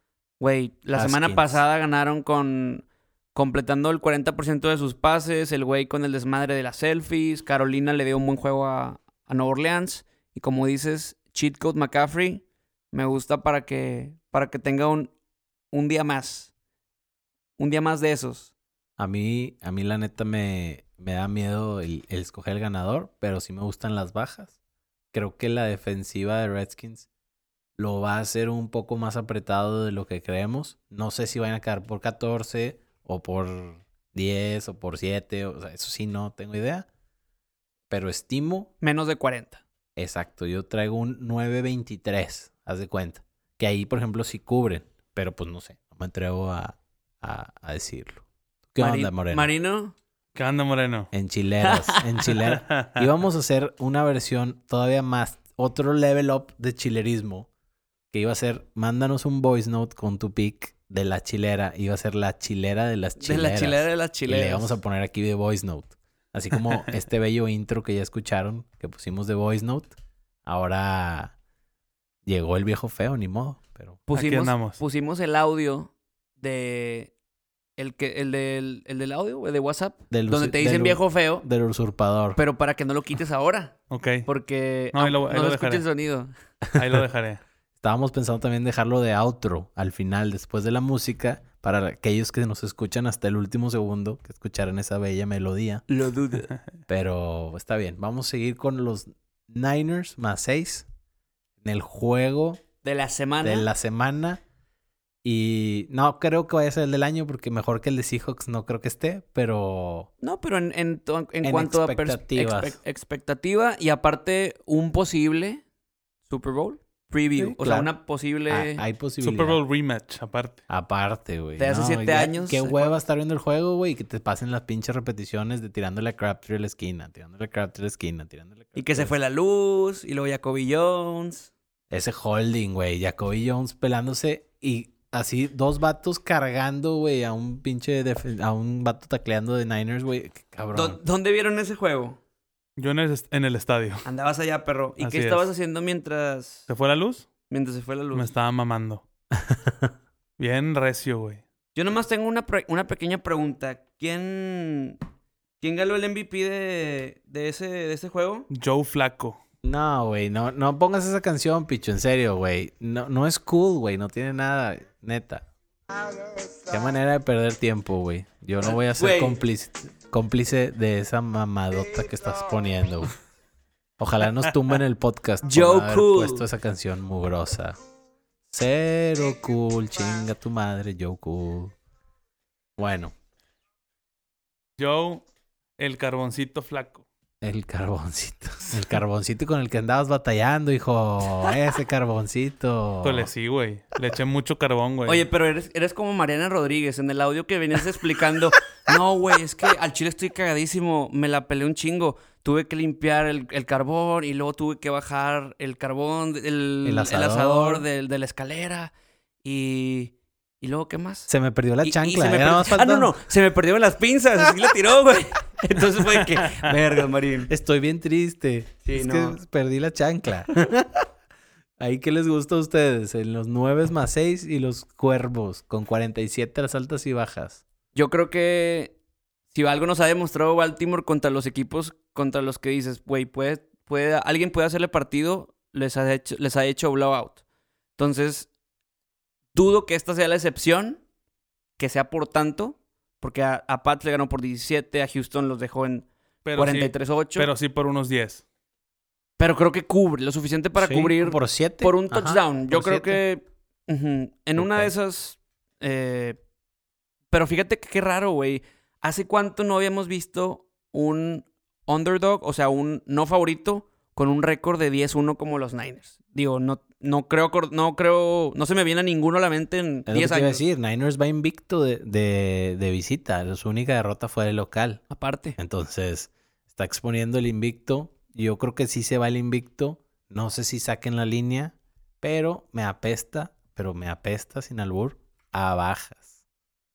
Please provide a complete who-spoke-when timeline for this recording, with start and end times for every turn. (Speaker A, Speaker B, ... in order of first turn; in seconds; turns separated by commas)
Speaker A: 0.4-15.1, Speaker B: 0.9-1.6, Speaker A: 15.7-16.5, Speaker A: 17.6-18.5, Speaker B: 19.0-24.5, Speaker B: 25.1-27.1, Speaker B: 27.8-36.9, Speaker B: 37.9-38.7, Speaker A: 38.8-39.6, Speaker B: 40.0-49.5, Speaker A: 48.8-49.9, Speaker C: 50.3-51.1, Speaker B: 51.1-57.5, Speaker A: 51.6-52.0, Speaker C: 52.4-53.0, Speaker B: 58.1-71.3, Speaker A: 63.2-64.8, Speaker B: 72.2-74.0, Speaker A: 74.1-77.1, Speaker C: 74.1-74.8, Speaker A: 77.8-81.5, Speaker B: 80.1-82.4, Speaker A: 82.3-83.7, Speaker C: 83.9-84.3, Speaker A: 84.2-86.3, Speaker C: 84.9-85.8, Speaker B: 86.7-87.0, Speaker C: 86.7-87.4, Speaker B: 87.8-95.8, Speaker A: 95.9-96.5, Speaker B: 96.9-100.9, Speaker B: 101.6-102.6, Speaker A: 102.8-103.7, Speaker B: 103.4-104.4, Speaker B: 105.2-110.1, Speaker A: 110.2-115.6, Speaker B: 111.4-112.8, Speaker A: 116.3-118.8, Speaker B: 117.4-117.9, Speaker B: 118.5-119.6, Speaker C: 119.2-120.6, Speaker B: 120.7-129.1, Speaker A: 121.6-122.9, Speaker A: 128.7-131.5, Speaker B: 131.9-141.0, Speaker A: 140.7-142.2, Speaker C: 142.8-144.1, Speaker A: 144.0-146.7, Speaker C: 145.0-145.5, Speaker C: 146.7-147.3, Speaker A: 147.5-148.3, Speaker C: 148.1-149.0, Speaker B: 149.4-149.9, Speaker C: 150.4-151.4, Speaker A: 151.8-155.0, Speaker A: 155.6-158.5, Speaker C: 158.5-159.4, Speaker B: 159.6-165.5, Speaker B: 166.7-173.1, Speaker A: 168.7-169.4, Speaker B: 174.0-177.8, Speaker A: 175.4-176.4, Speaker B: 178.5-181.7, Speaker B: 182.8-183.1, Speaker C: 184.8-185.2, Speaker C: 185.8-187.0, Speaker B: 187.4-193.3, Speaker C: 193.0-195.3, Speaker A: 195.1-208.9, Speaker B: 206.8-207.8, Speaker A: 209.4-211.3, Speaker B: 211.3-213.1, Speaker A: 211.8-217.5, Speaker B: 217.5-221.0, Speaker A: 218.8-219.4, Speaker B: 221.8-227.6, Speaker A: 227.9-228.9, Speaker A: 229.5-237.4, Speaker A: 238.0-238.5, Speaker A: 239.5-241.0, Speaker A: 241.8-247.5, Speaker C: 246.4-248.4, Speaker A: 249.4-256.4, Speaker B: 250.8-253.2, Speaker B: 254.6-254.9, Speaker A: 257.3-270.6, Speaker B: 270.1-275.0, Speaker A: 275.1-275.6, Speaker B: 275.6-286.3